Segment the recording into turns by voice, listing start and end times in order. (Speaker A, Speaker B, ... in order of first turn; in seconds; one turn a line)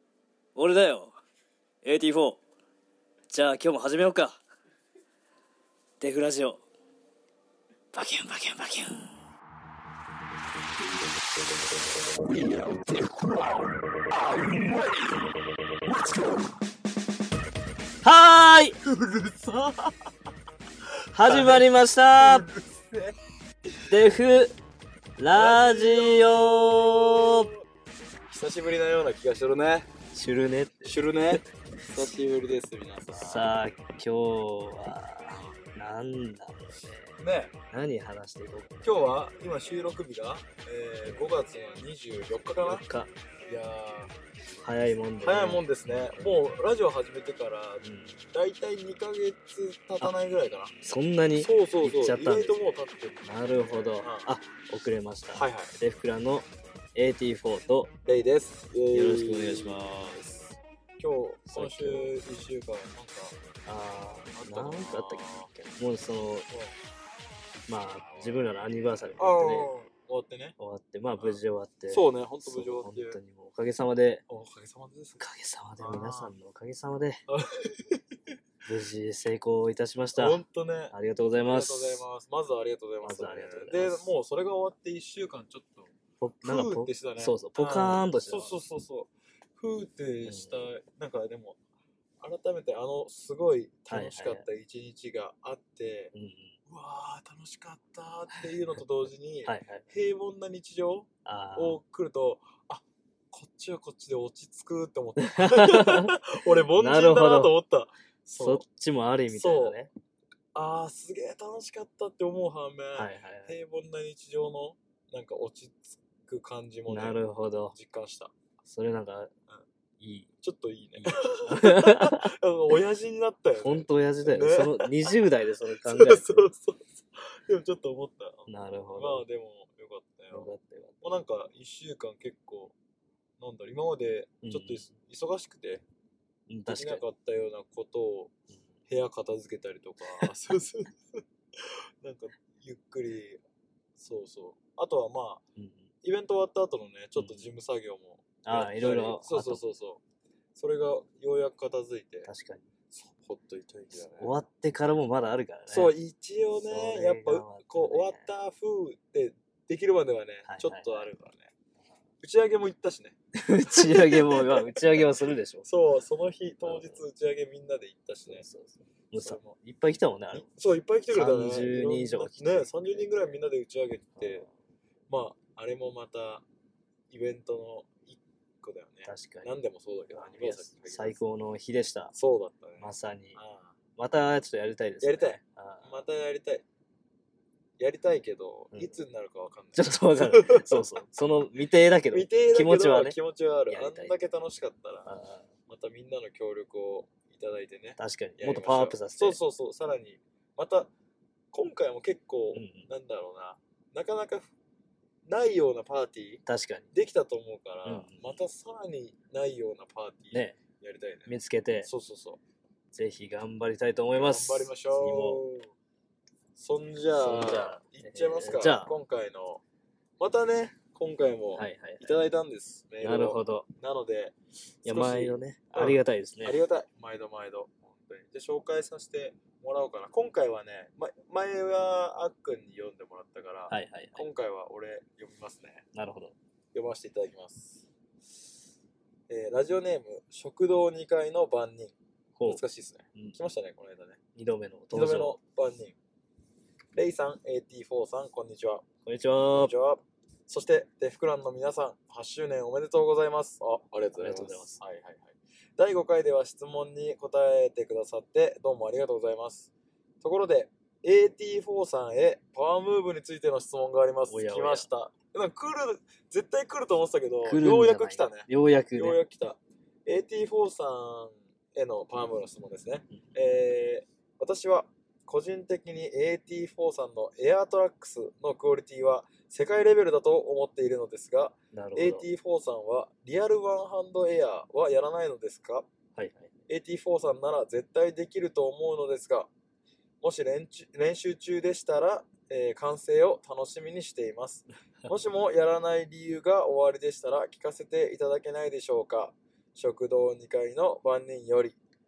Speaker A: 0.5-1.1
Speaker A: 1.8-2.4
Speaker A: 3.3-4.4
Speaker A: 6.0-6.6
Speaker A: 7.9-9.1
Speaker B: 12.8-13.5
Speaker B: 15.9-16.2
Speaker A: 18.0-18.8
Speaker B: 18.8-20.0
Speaker A: 21.1-22.5
Speaker B: 21.2-21.6
Speaker B: 22.2-23.1
Speaker A: 23.9-24.5
Speaker A: 25.2-27.5
Speaker B: 25.3-27.5
Speaker B: 28.3-29.9
Speaker A: 30.1-31.4
Speaker B: 30.8-33.5
Speaker A: 33.2-37.2
Speaker B: 37.2-37.5
Speaker A: 37.7-38.8
Speaker B: 38.8-42.8
Speaker A: 42.6-43.1
Speaker B: 43.5-44.1
Speaker A: 44.6-45.6
Speaker B: 45.2-50.7
Speaker A: 47.8-48.2
Speaker A: 50.8-57.9
Speaker B: 51.4-54.3
Speaker B: 55.3-55.7
Speaker B: 58.0-63.4
Speaker A: 58.9-60.1
Speaker A: 61.5-62.1
Speaker A: 63.6-66.5
Speaker B: 64.3-65.5
Speaker A: 67.7-69.7
Speaker B: 68.1-68.5
Speaker B: 69.2-70.5
Speaker A: 70.6-74.2
Speaker B: 71.2-73.2
Speaker B: 74.3-75.2
Speaker A: 75.2-77.2
Speaker B: 75.8-76.3
Speaker B: 77.3-78.0
Speaker A: 78.7-80.4
Speaker B: 80.2-85.9
Speaker A: 80.9-82.0
Speaker A: 83.0-84.1
Speaker A: 86.2-88.6
Speaker B: 86.4-91.6
Speaker A: 90.2-90.7
Speaker B: 92.2-96.1
Speaker A: 93.9-94.4
Speaker A: 96.1-96.5
Speaker B: 96.7-108.6
Speaker A: 98.3-98.8
Speaker A: 99.4-99.9
Speaker A: 101.2-101.8
Speaker A: 105.2-107.5
Speaker A: 108.3-109.9
Speaker B: 109.3-109.8
Speaker B: 110.5-117.2
Speaker A: 113.0-113.5
Speaker A: 116.9-117.7
Speaker B: 117.7-118.3
Speaker A: 118.6-119.3
Speaker A: 120.0-120.3
Speaker B: 120.4-125.2
Speaker A: 121.0-122.3
Speaker A: 123.6-126.4
Speaker B: 125.8-130.5
Speaker A: 128.5-129.2
Speaker A: 130.3-130.9
Speaker B: 131.0-132.7
Speaker B: 133.4-135.8
Speaker A: 134.4-134.8
Speaker A: 136.5-137.0
Speaker B: 136.7-138.3
Speaker B: 138.9-143.4
Speaker B: 144.0-145.4
Speaker A: 145.6-145.9
Speaker B: 146.0-150.0
Speaker A: 147.2-147.5
Speaker A: 148.4-149.6
Speaker B: 150.6-152.3
Speaker A: 152.2-152.7
Speaker B: 152.9-154.3
Speaker A: 154.2-155.9
Speaker B: 155.7-161.5
Speaker A: 156.7-158.3
Speaker A: 160.4-161.1
Speaker B: 162.2-163.2
Speaker A: 163.3-165.7
Speaker B: 163.7-165.0
Speaker B: 165.6-168.4
Speaker A: 166.6-167.0
Speaker A: 168.3-170.4
Speaker B: 169.1-169.5
Speaker B: 170.3-174.4
Speaker A: 171.1-173.3
Speaker B: 175.1-176.4
Speaker B: 177.1-181.2
Speaker A: 179.0-179.5
Speaker A: 180.1-182.1
Speaker B: 182.1-183.7
Speaker A: 182.8-183.4
Speaker A: 183.9-186.0
Speaker B: 185.0-186.6
Speaker B: 187.8-190.8
Speaker A: 188.7-189.0
Speaker A: 189.7-193.2
Speaker B: 192.1-195.1
Speaker A: 193.7-194.1
Speaker A: 195.1-195.5
Speaker B: 195.7-200.9
Speaker A: 198.0-199.4
Speaker B: 201.5-204.5
Speaker A: 202.5-202.9
Speaker B: 205.3-211.3
Speaker A: 206.4-206.9
Speaker A: 207.8-208.3
Speaker A: 210.3-210.6
Speaker A: 211.3-211.9
Speaker B: 211.8-212.4
Speaker A: 212.9-215.4
Speaker B: 214.1-215.5
Speaker B: 216.6-219.6
Speaker A: 217.1-218.9
Speaker B: 220.2-235.8
Speaker A: 221.5-222.2
Speaker A: 223.0-223.7
Speaker A: 224.8-226.6
Speaker A: 233.7-234.2
Speaker A: 235.9-236.3
Speaker B: 236.7-237.8
Speaker B: 239.3-241.9
Speaker A: 242.4-242.6
Speaker B: 242.4-244.2
Speaker A: 244.3-245.3
Speaker B: 244.9-245.9
Speaker B: 246.9-248.8
Speaker A: 249.1-249.7
Speaker B: 249.5-259.7
Speaker A: 254.2-254.8
Speaker B: 260.2-285.9
Speaker A: 264.3-264.9
Speaker A: 267.4-269.2
Speaker A: 281.7-282.2
Speaker A: 286.1-286.5
Speaker B: 286.7-289.5
Speaker B: 290.2-301.8